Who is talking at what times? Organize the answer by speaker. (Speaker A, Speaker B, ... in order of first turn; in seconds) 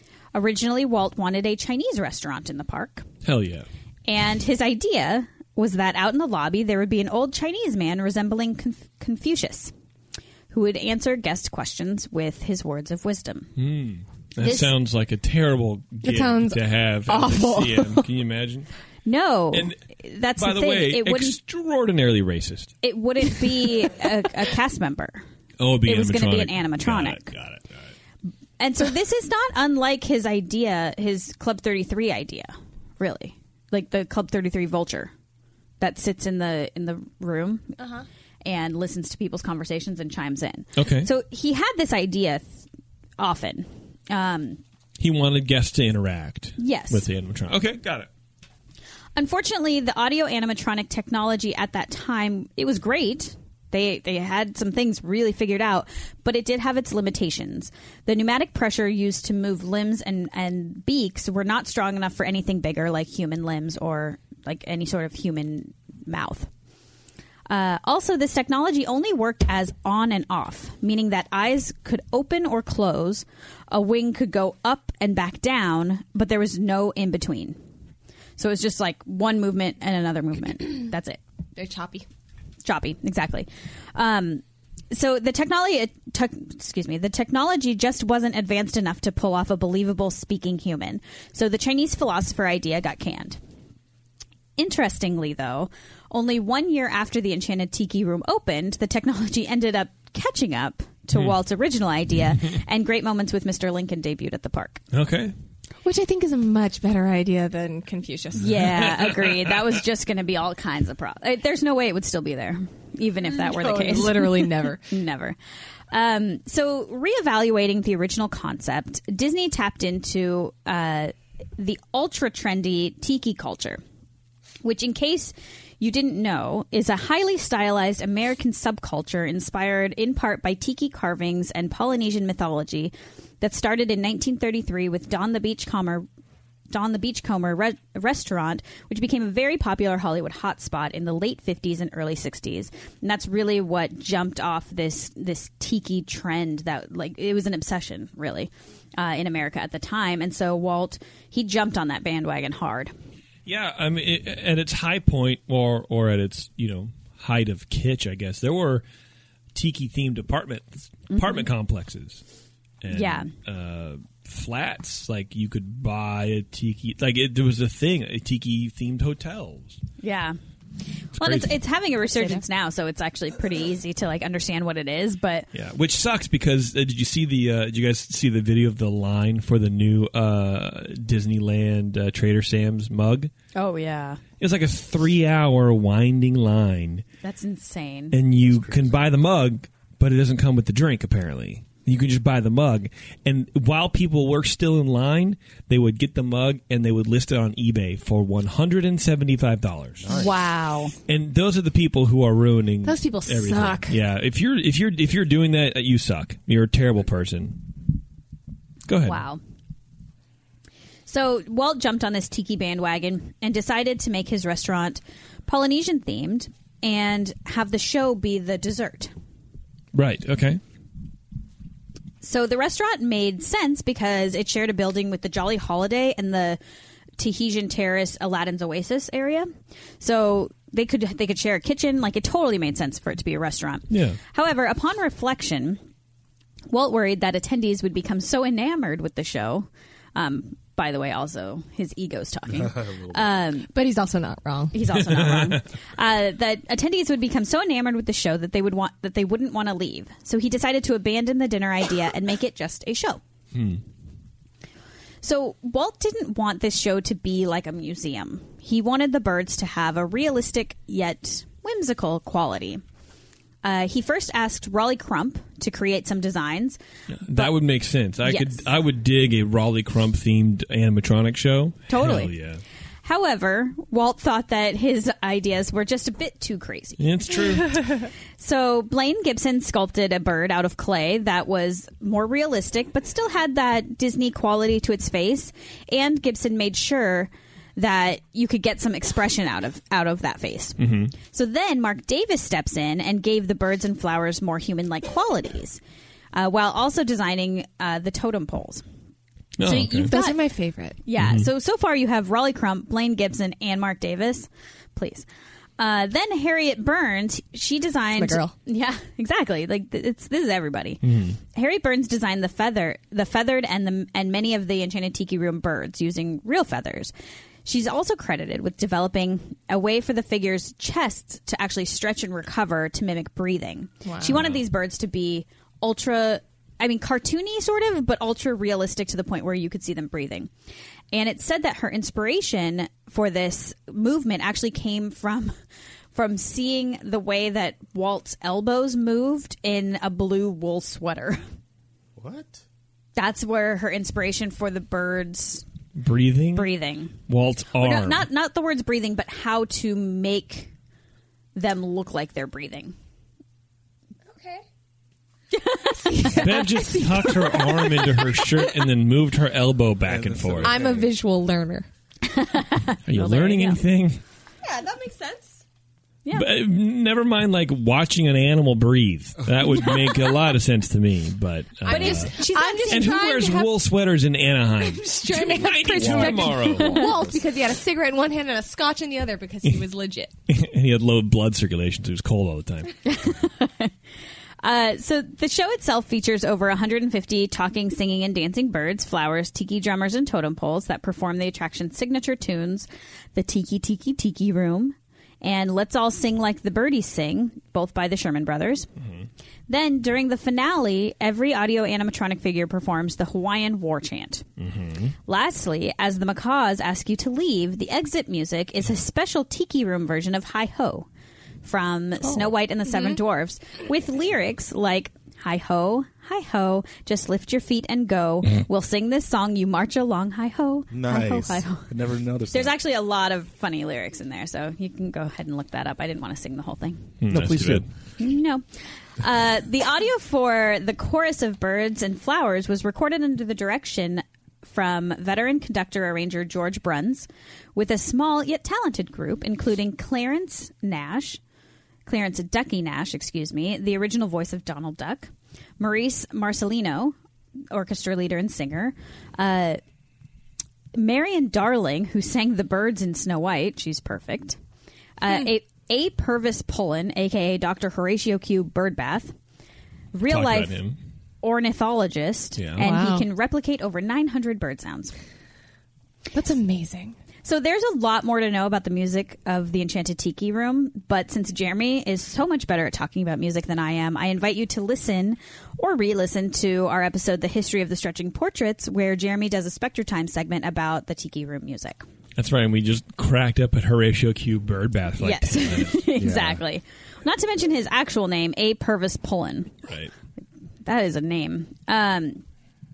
Speaker A: 0.3-3.0, 4.1-9.7, 10.5-13.5, 14.4-14.7, 19.1-21.4, 22.8-25.2, 25.8-27.3, 28.6-35.1, 35.8-37.8, 38.4-42.6, 43.2-44.6, 46.6-47.0, 49.1-66.5, 67.5-77.6, 78.4-81.2, 82.6-93.4, 94.6-104.8, 108.3-115.4, 115.9-123.8, 124.6-136.1, 136.7-152.9, 161.1-161.4, 162.9-163.3, 170.0-170.4, 171.2-175.5, 183.5-184.2, 187.2-188.2, 200.1-200.9, 209.0-209.4, 211.1-219.1, 222.2-226.6, 227.2-229.5, 230.0-235.8, 236.7-243.7, 244.7-253.2, 255.2-262.8, 263.6-266.8, 268.2-268.6, 271.9-272.3, 273.0-277.4, 278.4-295.8, 296.3-298.8, 299.6-300.4, 301.0-305.2, 305.8-317.1, 317.6-330.5, 331.1-335.5, 336.1-341.4, 343.1-345.6, 346.5-347.2, 347.8-350.7, 351.5-352.9, 355.6-356.5, 362.3-363.8, 371.9-373.2, 376.4-377.1, 383.1-383.9, 384.6-398.9, 399.7-404.4, 405.3-411.1, 411.6-421.8, 422.5-427.1, 428.2-428.6, 429.2-441.4, 442.1-447.1, 447.7-449.8, 450.9-454.6, 455.2-459.3, 460.1-460.8, 461.4-465.1, 467.4-482.0, 485.2-489.8, 490.8-492.4
Speaker B: 3.2-3.7, 13.6-18.7, 19.5-19.8, 20.4-22.7, 25.6-27.9, 40.8-41.1, 45.0-48.1, 104.9-105.3, 108.6-109.5, 153.4-158.8, 159.5-162.2, 162.8-169.8, 171.2-171.5, 175.5-183.3, 184.4-187.0, 188.1-200.1, 201.1-207.7, 208.9-209.2, 219.9-220.6, 233.9-234.2, 245.0-245.6, 253.5-253.8, 267.1-272.6, 277.0-277.8, 290.8-291.1, 299.6-300.1, 301.2-301.5, 311.0-311.4, 345.9-346.7, 347.3-348.2, 356.2-360.8, 363.1-364.2, 366.3-372.3, 372.9-377.1, 380.5-383.0, 404.6-405.1, 427.2-427.9, 460.3-461.0, 462.6-462.8, 482.4-486.0
Speaker C: 16.0-18.1, 37.8-38.0, 81.5-82.0, 105.8-108.7, 113.3-114.9, 172.2-172.4, 202.8-204.0, 243.7-244.8, 300.0-301.0, 308.1-308.5, 324.0-324.4, 354.3-354.6, 355.9-358.3, 360.6-361.9, 364.6-365.6, 371.8-373.7, 374.8-380.3, 462.8-463.3, 466.3-467.2
Speaker D: 188.4-189.0, 200.0-200.3, 242.6-243.2, 342.2-342.6, 360.0-361.1, 375.8-377.4, 420.9-422.7, 427.3-427.8, 486.2-486.6